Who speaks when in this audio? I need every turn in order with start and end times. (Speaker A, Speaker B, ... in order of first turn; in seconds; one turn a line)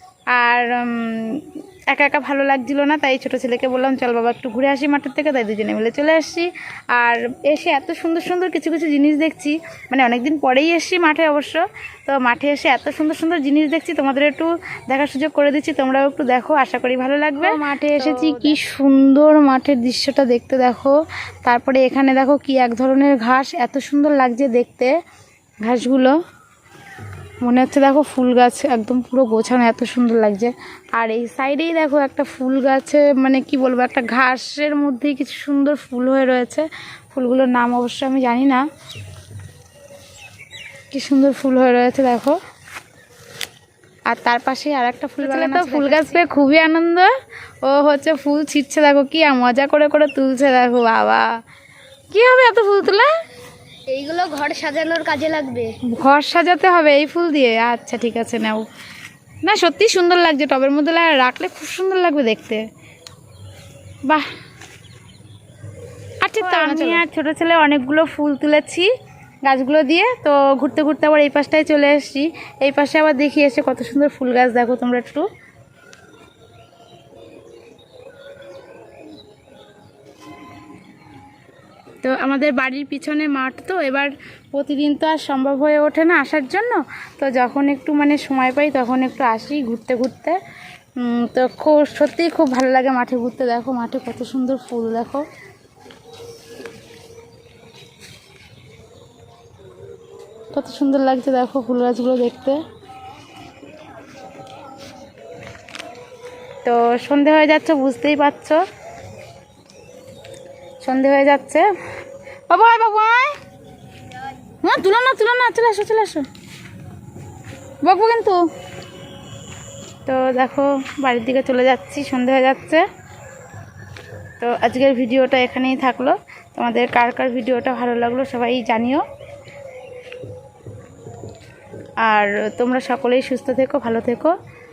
Speaker A: 0.3-24.9
Speaker B: 17.4-18.6
Speaker A: 25.6-26.2
Speaker A: 27.4-38.6
Speaker A: 40.9-42.4
Speaker A: 44.1-47.1
Speaker B: 45.2-46.2
Speaker A: 47.6-51.3
Speaker A: 52.1-53.1
Speaker B: 53.9-55.8
Speaker A: 55.8-58.7
Speaker A: 59.4-62.6
Speaker A: 66.2-68.9
Speaker B: 66.4-67.0
Speaker A: 69.4-75.3
Speaker A: 82.0-90.4
Speaker A: 91.0-95.2
Speaker A: 100.5-102.6
Speaker A: 106.6-108.6
Speaker A: 110.8-111.7
Speaker A: 112.5-113.4
Speaker A: 114.6-116.2
Speaker A: 117.8-118.5
Speaker A: 120.0-122.8
Speaker A: 124.4-129.1
Speaker A: 132.0-134.3